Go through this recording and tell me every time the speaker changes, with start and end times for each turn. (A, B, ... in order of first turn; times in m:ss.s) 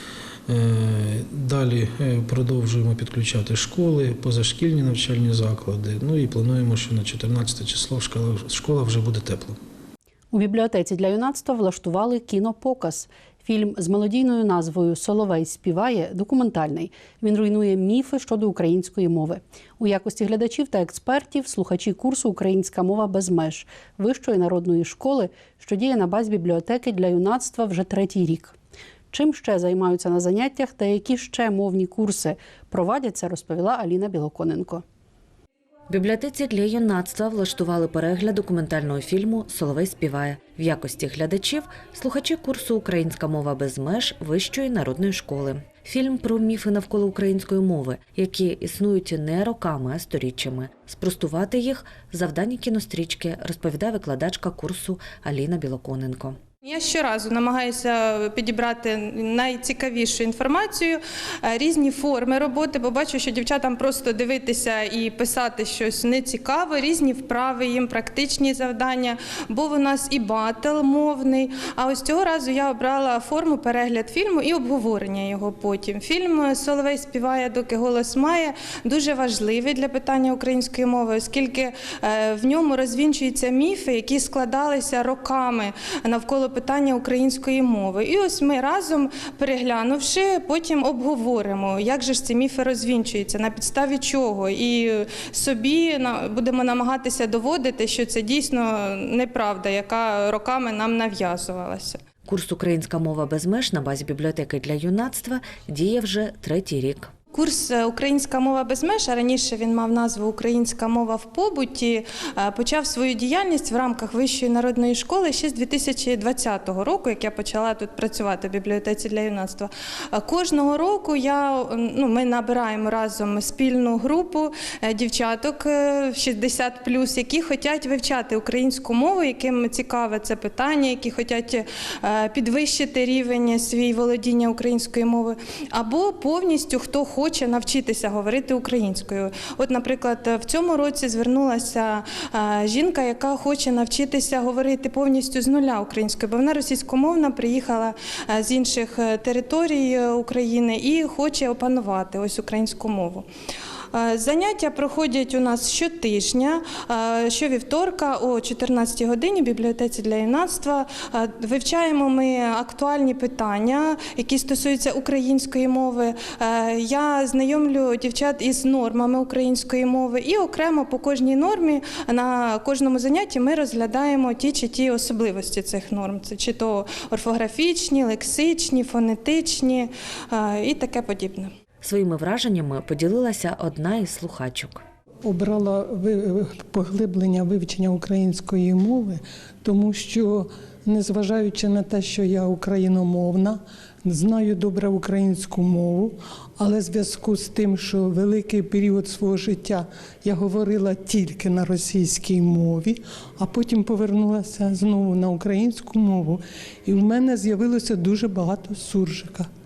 0:00.5-0:09.6 A
0:10.3-0:28.6 B
0:29.1-0:34.8 B
0:35.9-0:56.4 C
0:56.6-1:42.0 D
1:42.3-1:47.1 C
1:47.3-2:33.2 D
2:33.9-3:01.5 D
3:01.8-3:04.8 C
3:05.2-3:29.5 E